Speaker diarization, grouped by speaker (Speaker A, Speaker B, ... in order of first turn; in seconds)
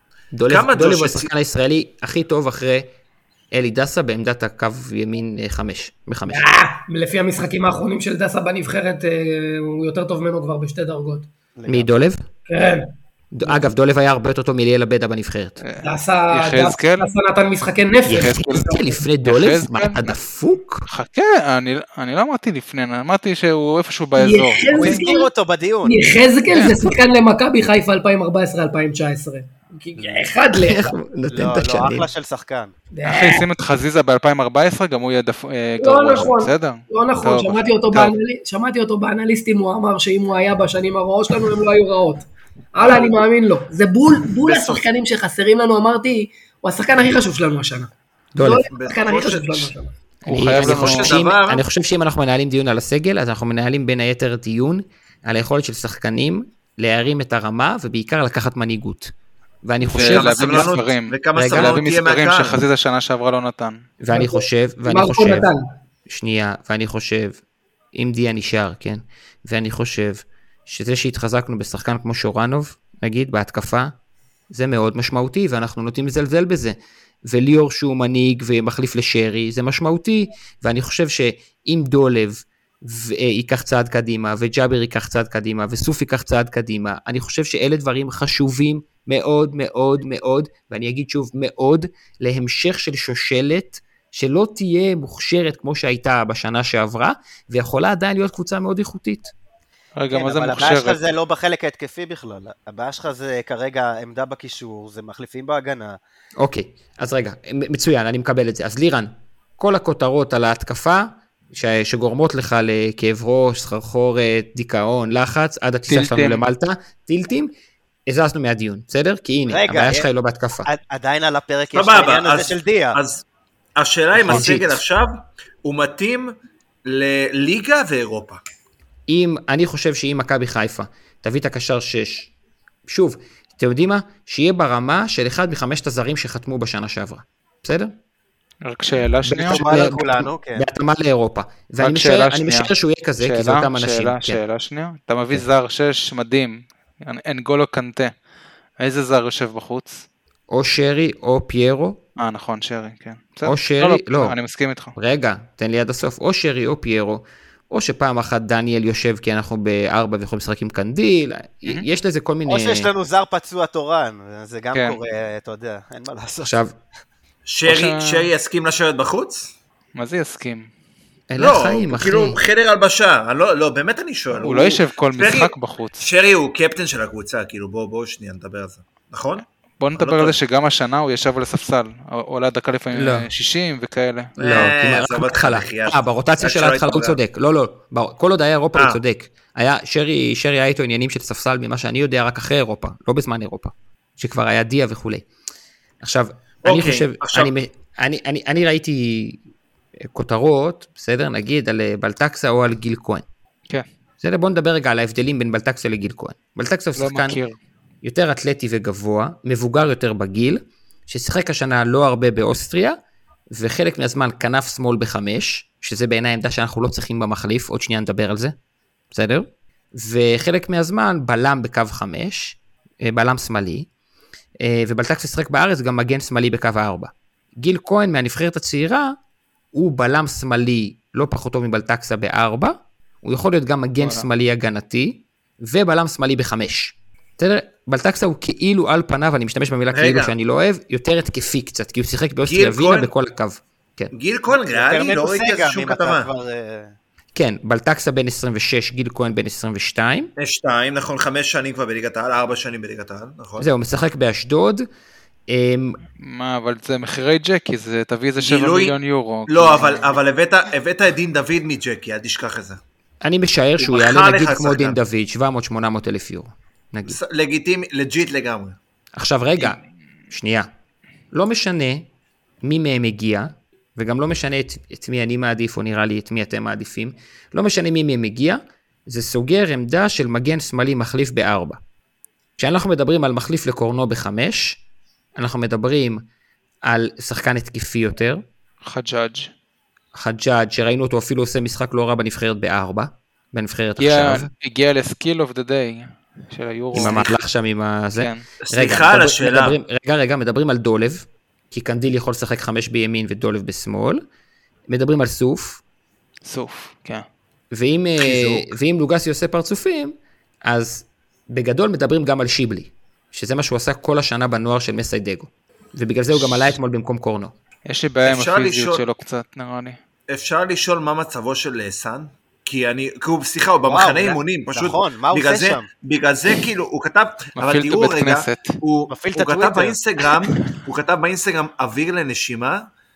Speaker A: 0.3-2.9, 3.5-6.4, 11.7-12.2, 13.3-15.6, 18.1-20.9, 30.5-32.1, 48.4-48.7, 50.3-59.1, 59.6-60.8, 61.4-61.8, 64.0-65.5, 66.1-67.4, 67.9-73.9, 74.5-99.3, 106.4-117.5, 118.1-120.7, 124.2-124.8, 129.1-132.3, 132.9-137.9, 139.2-144.4, 150.5-152.0, 153.4-154.3, 155.0-162.9, 166.4-166.7, 171.3-172.4, 182.9-183.3, 184.4-195.3, 196.0-199.4, 200.1-203.2, 204.2-207.4, 208.0-213.0, 213.5-218.6, 219.1-223.9, 224.6-229.2, 229.7-244.1, 247.3-250.3, 253.6-254.9, 255.5-256.0, 263.2-267.2, 269.2-269.8, 270.3-270.7, 271.3-272.1, 272.6-281.8, 282.6-284.8, 285.4-286.2, 286.9-288.4, 290.1-294.5, 296.9-304.2, 304.9-305.8, 307.7-317.5
Speaker B: 0.5-1.3, 42.8-43.2, 44.4-44.9, 48.7-49.7, 50.6-51.6, 60.0-62.6, 121.7-123.2, 123.8-126.3, 126.9-128.4, 167.5-169.5, 171.4-179.4, 180.0-180.4, 184.4-187.2, 196.7-197.5, 239.9-240.3, 242.5-243.1, 244.1-246.3, 250.4-253.7, 258.4-259.0, 259.5-262.8, 263.8-265.0, 267.1-268.8, 297.0-297.3, 298.6-299.8, 318.3-319.0, 320.3-332.8
Speaker C: 6.3-11.3, 12.5-12.9, 15.8-18.4, 24.2-25.3, 25.8-31.0, 32.9-33.5, 35.8-49.9, 64.1-65.7
Speaker D: 11.6-11.9, 24.7-26.0, 31.3-32.7, 100.1-106.0, 119.5-120.1, 120.6-123.0, 139.4-140.7, 162.5-166.5, 244.5-246.9, 323.9-325.9, 329.1-330.0
Speaker E: 15.6-17.1, 18.1-20.1, 20.9-25.0, 26.5-26.9, 33.0-38.1, 50.3-51.1, 59.9-63.8, 100.0-101.0, 115.9-116.4, 138.7-139.6, 141.8-148.1, 148.8-150.1, 152.2-154.9, 167.7-168.3, 170.0-170.7, 174.4-176.1, 179.8-184.6, 207.0-207.6, 234.0-234.3, 256.2-260.2, 288.8-289.5, 294.0-297.3, 298.1-298.4, 306.4-307.2, 317.9-320.0, 327.6-328.8